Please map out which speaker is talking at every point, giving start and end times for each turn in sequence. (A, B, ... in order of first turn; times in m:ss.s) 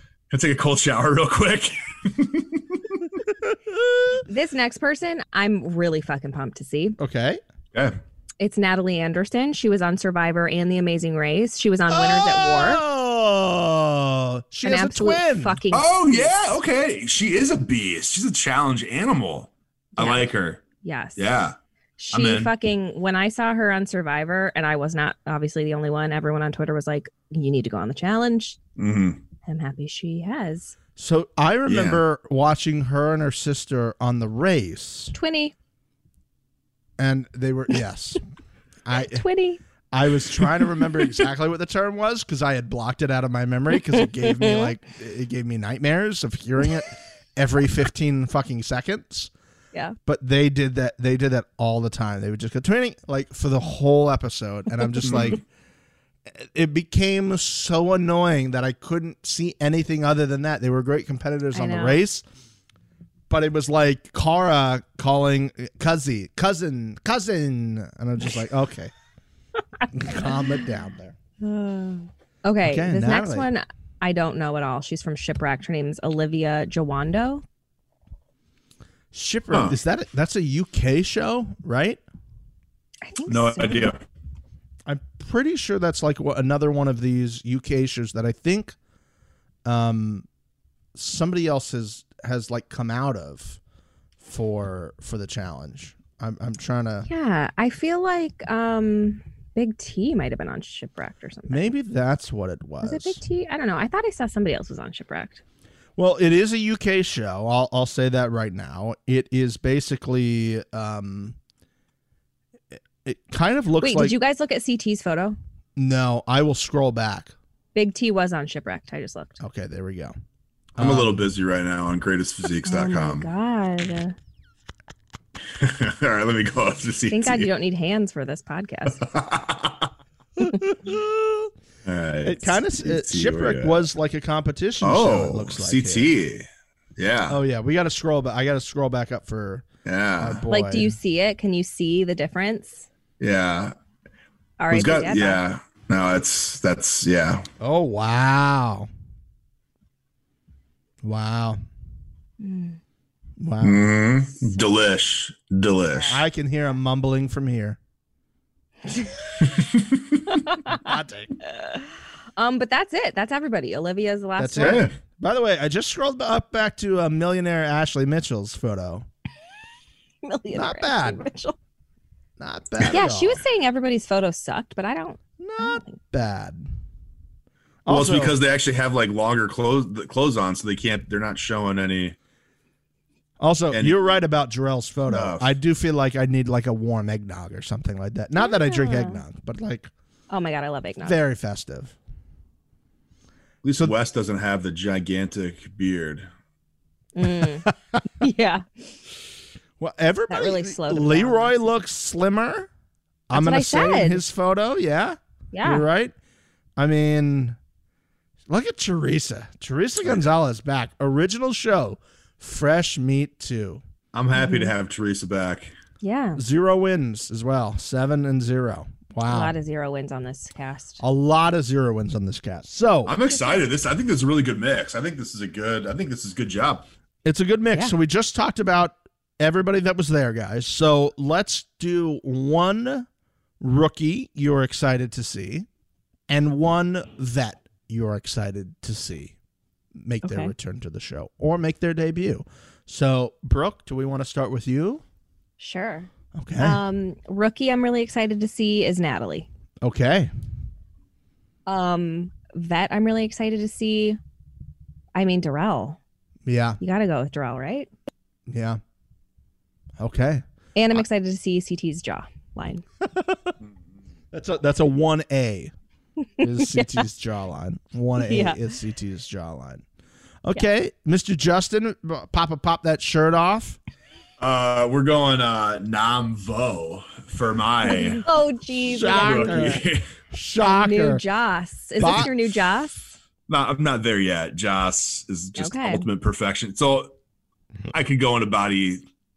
0:00.3-0:03.0 A
0:03.5-0:04.1 B
0:04.3-0:07.0 C
0:07.0-0:07.4 B
0:08.4-0:12.8 C
0:11.9-0:15.6 B
0:14.6-0:16.3 C
0:15.7-0:20.6 A
0:20.0-0:20.3 C
0:20.8-0:21.2 C
0:21.2-0:21.6 A
0:22.0-0:28.6 C
0:22.1-0:22.5 A
0:28.8-0:29.2 A
0:29.4-0:30.7 C
0:31.0-0:35.1 B
0:31.7-0:32.0 A
0:35.1-0:35.5 C
0:37.0-0:38.2 B
0:38.8-0:39.2 B
0:38.9-0:39.6 C
0:39.9-0:49.3 B
0:44.3-0:44.6 C
0:50.0-0:55.4 B
0:55.0-0:55.4 A
0:56.3-1:02.2 B
1:01.5-1:02.0 C
1:03.3-1:08.9 B
1:09.9-1:11.2 B
1:11.4-1:17.4 C
1:12.6-1:13.5 B
1:19.1-1:22.0 B
1:19.5-1:19.8 A
1:23.0-1:23.9 C
1:23.3-1:24.0 A
1:24.8-1:28.8 B
1:29.6-1:30.2 B
1:30.9-1:33.6 B
1:34.2-1:37.1 B
1:37.1-1:41.7 C
1:41.5-1:43.2 B
1:42.8-1:45.4 C
1:46.0-1:51.4 B
1:53.0-1:54.1 B
1:53.8-1:55.4 C
1:55.8-1:57.3 B
1:57.7-1:59.4 C
1:59.4-2:00.1 B
2:00.7-2:01.2 B
2:00.8-2:03.3 A
2:02.6-2:04.1 C
2:05.6-2:07.5 A
2:07.1-2:09.0 C
2:09.0-2:09.9 A
2:10.4-2:11.5 B
2:11.8-2:13.8 A
2:12.2-2:16.1 B
2:14.8-2:17.4 A
2:17.3-2:19.7 B
2:19.8-2:20.4 A
2:20.2-2:21.0 B
2:20.5-2:22.9 C
2:23.2-2:23.7 A
2:24.6-2:25.4 C
2:24.7-2:27.5 A
2:27.6-2:28.9 B
2:31.0-2:31.6 B
2:32.4-2:32.8 C
2:33.4-2:33.9 B
2:33.6-2:36.2 A
2:36.1-2:37.8 B
2:39.4-2:40.2 A
2:40.4-2:40.8 C
2:40.7-2:41.3 B
2:41.5-2:41.8 C
2:42.4-2:44.9 C
2:44.4-2:49.0 B
2:44.6-2:44.9 A
2:50.2-2:51.6 C
2:50.5-2:51.2 B
2:52.4-2:53.4 B
2:52.9-2:56.0 C
2:55.4-2:56.7 B
2:57.8-2:58.4 B
2:57.9-3:02.2 A
3:03.4-3:09.9 B
3:03.7-3:04.0 A
3:05.1-3:05.5 A
3:08.4-3:09.2 C
3:10.3-3:11.2 C
3:11.0-3:11.9 B
3:13.6-3:16.3 A
3:17.1-3:18.9 C
3:19.8-3:22.7 B
3:20.3-3:21.5 C
3:23.3-3:26.1 B
3:23.3-3:24.2 C
3:25.5-3:25.8 C
3:26.8-3:27.6 B
3:28.5-3:33.8 B
3:34.1-3:35.7 A
3:34.3-3:34.7 C
3:36.0-3:36.4 C
3:36.4-3:39.5 B
3:39.2-3:41.0 C
3:41.0-3:43.2 B
3:43.0-3:46.8 A
3:43.3-3:43.6 C
3:47.2-3:53.1 B
3:53.6-3:55.7 B
3:56.3-3:59.3 B
4:00.0-4:05.0 B
4:00.2-4:00.5 C
4:05.6-4:09.5 C
4:06.3-4:06.8 B
4:09.8-4:10.3 B
4:11.7-4:14.2 C
4:15.1-4:16.0 C
4:16.4-4:16.8 B
4:16.8-4:17.9 C
4:18.5-4:18.8 B
4:20.0-4:20.4 B
4:20.7-4:22.8 C
4:23.0-4:23.5 B
4:24.3-4:25.7 B
4:26.4-4:29.8 B
4:26.6-4:26.9 C
4:28.2-4:28.6 C
4:30.4-4:33.8 B
4:34.4-4:38.2 A
4:38.2-4:39.8 C
4:38.9-4:41.2 B
4:39.0-4:40.0 A
4:40.6-4:43.0 C
4:42.0-4:42.3 B
4:43.5-4:47.1 A
4:45.6-4:46.0 C
4:47.9-4:49.0 A